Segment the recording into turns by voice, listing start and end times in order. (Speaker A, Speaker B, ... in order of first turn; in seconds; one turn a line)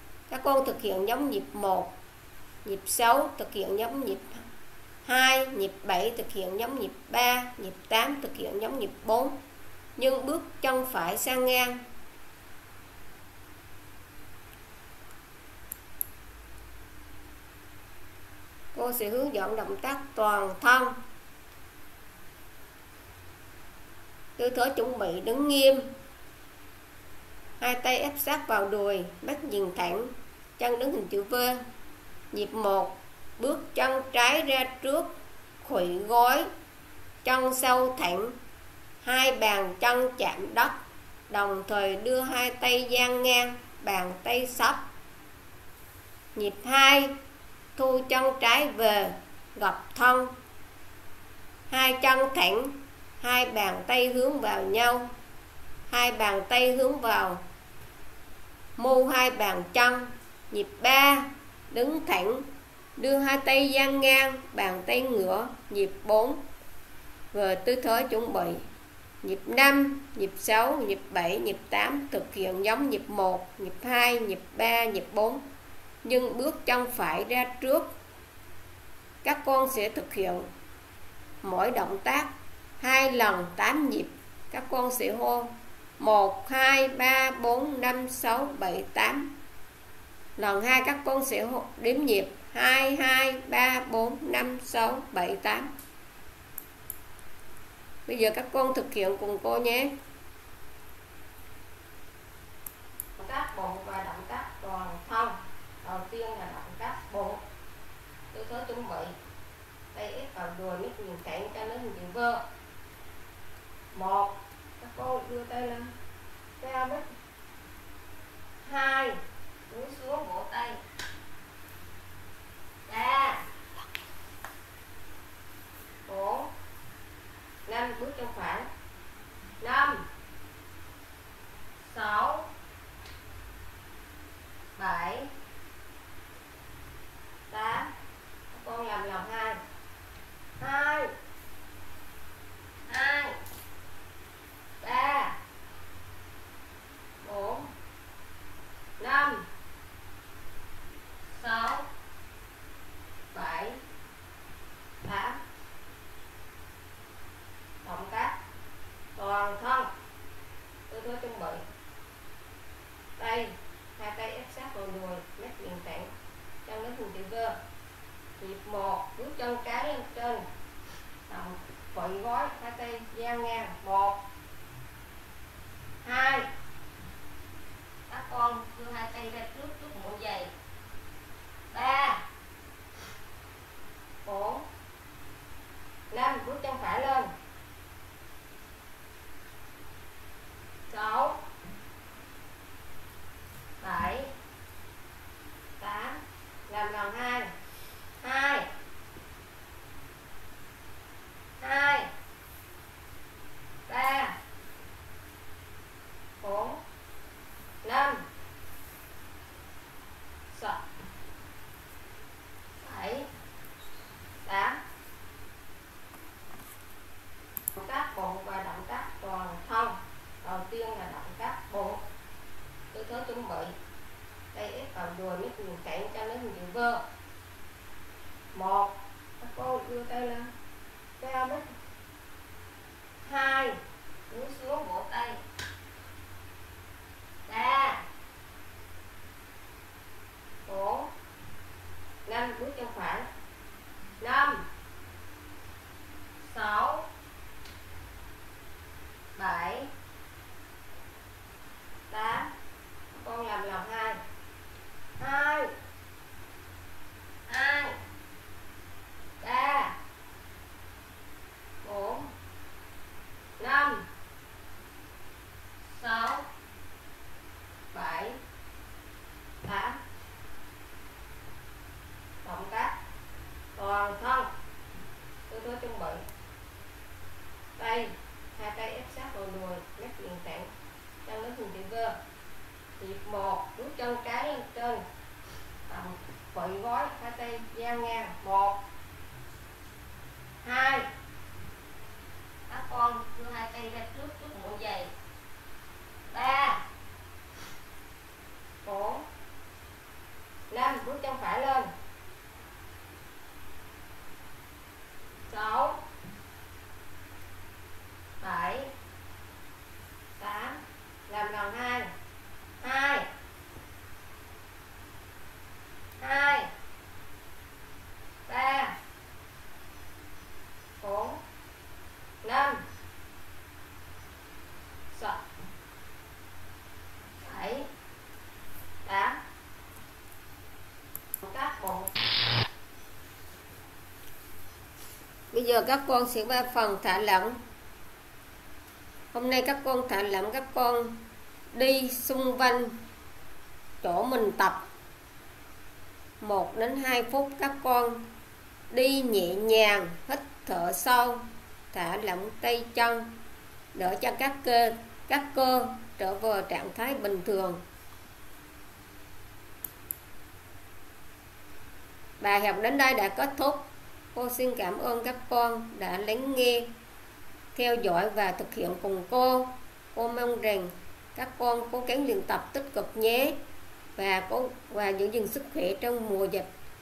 Speaker A: 0.3-1.9
Speaker A: 2.6-4.4
Speaker A: 5.0-9.4
Speaker A: 10.0-11.8
Speaker A: 18.7-21.0
Speaker A: 24.4-25.9
Speaker A: 27.6-31.6
Speaker A: 32.3-36.5
Speaker A: 37.2-38.4
Speaker A: 39.0-40.8
Speaker A: 41.3-44.8
Speaker A: 46.4-47.1
Speaker A: 47.8-50.3
Speaker A: 51.7-55.1
Speaker A: 55.9-57.4
Speaker A: 58.8-66.4
Speaker A: 67.3-68.7
Speaker A: 69.2-75.4
Speaker A: 76.0-77.9
Speaker A: 79.2-80.5
Speaker A: 81.4-89.3
Speaker A: 90.4-95.7
Speaker A: 98.1-99.9
Speaker A: 103.2-107.4
Speaker A: 108.3-109.2
Speaker A: 109.9-112.5
Speaker A: 113.9-115.9
Speaker A: 116.6-117.2
Speaker A: 118.6-120.8
Speaker A: 122.9-123.5
Speaker A: 126.1-126.5
Speaker A: 127.7-128.7
Speaker A: 129.6-130.1
Speaker A: 131.8-132.5
Speaker A: 134.8-135.3
Speaker A: 137.5-137.9
Speaker A: 138.5-139.6
Speaker A: 140.6-141.1
Speaker A: 142.9-143.4
Speaker A: 144.8-145.4
Speaker A: 147.2-147.7
Speaker A: 149.0-149.5
Speaker A: 151.3-151.9
Speaker A: 153.3-153.8
Speaker A: 155.0-155.4
Speaker A: 157.8-158.4
Speaker A: 159.2-159.9
Speaker A: 160.9-161.6
Speaker A: 163.2-166.1
Speaker A: 166.7-167.6
Speaker A: 168.4-170.4
Speaker A: 171.3-174.2
Speaker A: 176.0-176.5
Speaker A: 178.1-180.5
Speaker A: 181.7-182.2
Speaker A: 184.2-184.7
Speaker A: 186.1-187.3
Speaker A: 190.9-191.4
Speaker A: 193.8-194.3
Speaker A: 195.8-197.5
Speaker A: 198.2-198.7
Speaker A: 201.6-202.1
Speaker A: 203.9-204.4
Speaker A: 206.4-206.8
Speaker A: 207.8-208.2
Speaker A: 210.5-210.8
Speaker A: 212.8-213.3
Speaker A: 214.4-214.8
Speaker A: 217.8-222.0
Speaker A: 222.9-223.7
Speaker A: 224.5-227.0
Speaker A: 228.5-230.5
Speaker A: 231.2-231.7
Speaker A: 233.2-235.4
Speaker A: 237.5-238.0
Speaker A: 240.7-241.1
Speaker A: 242.2-243.3
Speaker A: 244.2-244.7
Speaker A: 246.4-247.1
Speaker A: 249.4-249.9
Speaker A: 252.1-252.5
Speaker A: 253.1-254.2
Speaker A: 255.2-255.7
Speaker A: 257.5-258.0
Speaker A: 259.4-260.0
Speaker A: 261.8-262.3
Speaker A: 263.6-264.1
Speaker A: 265.8-266.5
Speaker A: 267.9-268.4
Speaker A: 269.6-270.0
Speaker A: 272.4-272.9
Speaker A: 273.8-274.5
Speaker A: 275.5-276.3
Speaker A: 277.8-280.7
Speaker A: 281.2-282.2
Speaker A: 283.0-285.0
Speaker A: 285.9-288.8
Speaker A: 290.6-291.1
Speaker A: 292.7-295.1
Speaker A: 296.3-296.9
Speaker A: 298.8-299.3
Speaker A: 300.7-301.9
Speaker A: 305.5-306.0
Speaker A: 308.4-308.9
Speaker A: 310.4-312.1
Speaker A: 312.8-313.3
Speaker A: 316.2-316.7
Speaker A: 318.5-319.0
Speaker A: 321.0-321.4
Speaker A: 322.4-322.8
Speaker A: 325.1-325.4
Speaker A: 327.4-327.9
Speaker A: 329.1-329.4
Speaker A: 331.4-332.1
Speaker A: 335.5-337.6
Speaker A: 339.3-341.2
Speaker A: 341.7-343.0
Speaker A: 344.0-344.8
Speaker A: 346.4-348.2
Speaker A: 348.9-353.3
Speaker A: 353.9-357.8
Speaker A: 362.4-366.9
Speaker A: 367.8-373.6
Speaker A: 374.2-376.7